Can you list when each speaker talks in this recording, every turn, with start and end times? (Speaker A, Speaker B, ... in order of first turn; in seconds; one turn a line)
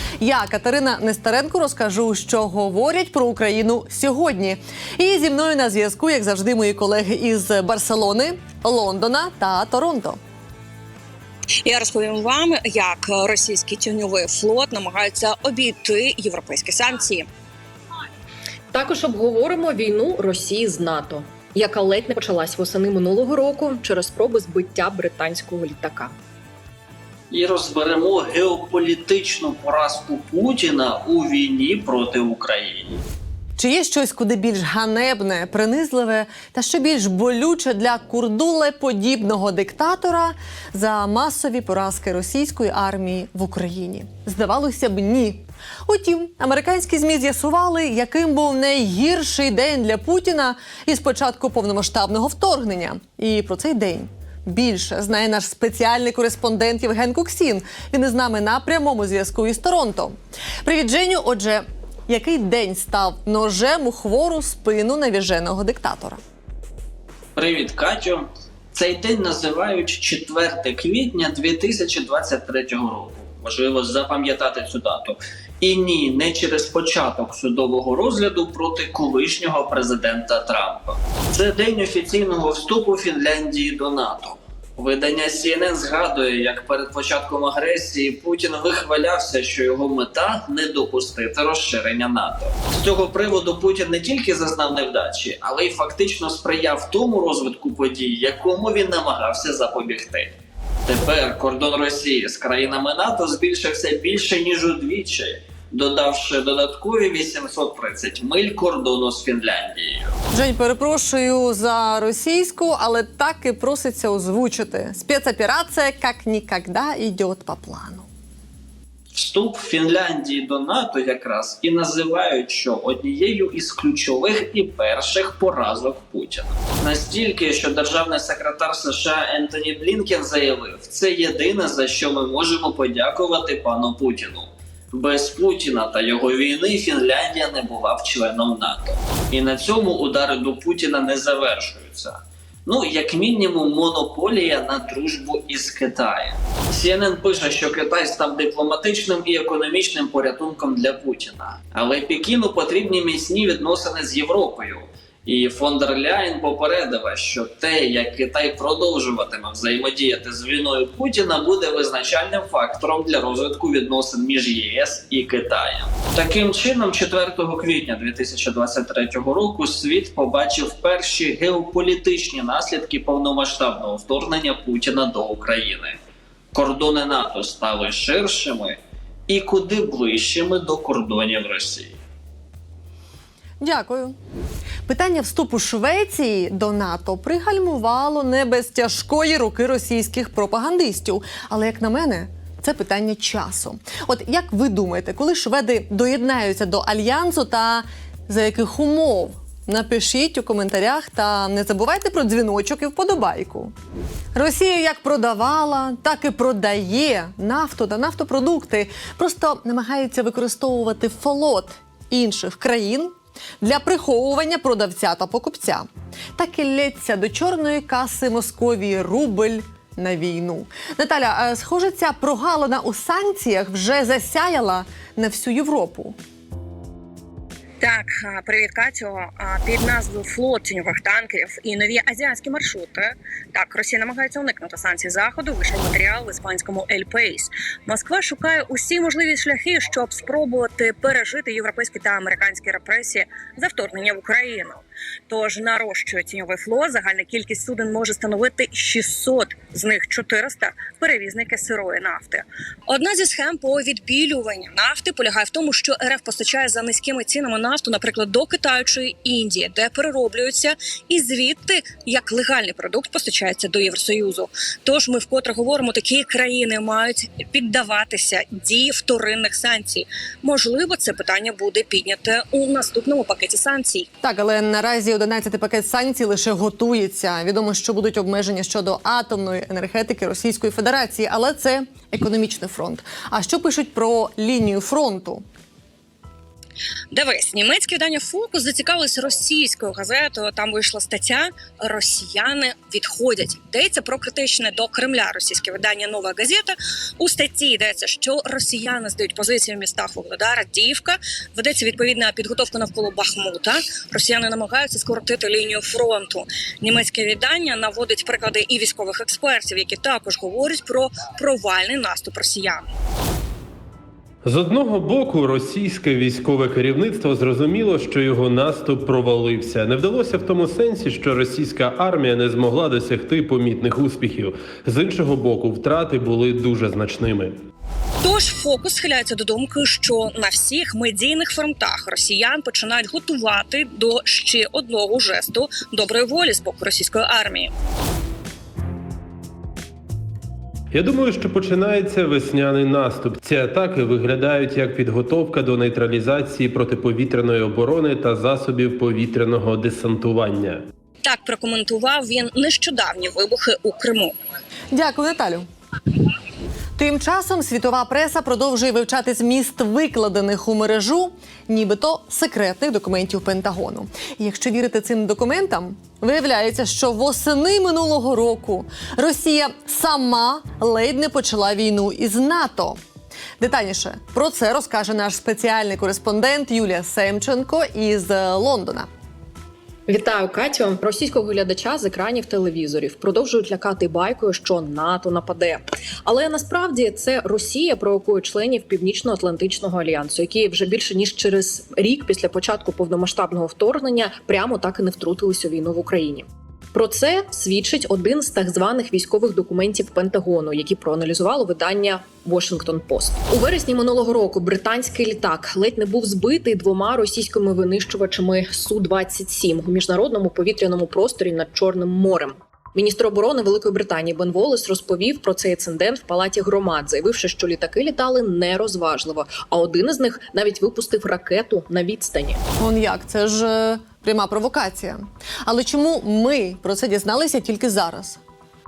Speaker A: 0.2-10.2
Speaker B: 11.6-17.2
Speaker C: 18.7-26.1
Speaker D: 27.3-33.0
Speaker A: 33.6-66.2
Speaker D: 67.3-100.3
Speaker D: 100.8-110.1
Speaker A: 110.3-118.1
Speaker D: 119.1-176.0
Speaker D: 176.5-182.0
Speaker A: 183.6-184.2
Speaker A: 184.9-203.7
Speaker A: 204.3-226.2
Speaker B: 227.8-274.1
Speaker A: 274.2-285.4
Speaker B: 287.1-312.8
Speaker E: 314.4-327.6
Speaker B: 328.2-337.7
Speaker E: 340.9-350.8
Speaker B: 351.2-354.3
Speaker A: 354.9-355.7
Speaker A: 357.0-373.0
Speaker A: 373.6-379.1
Speaker C: 380.1-422.6
Speaker A: 422.8-428.4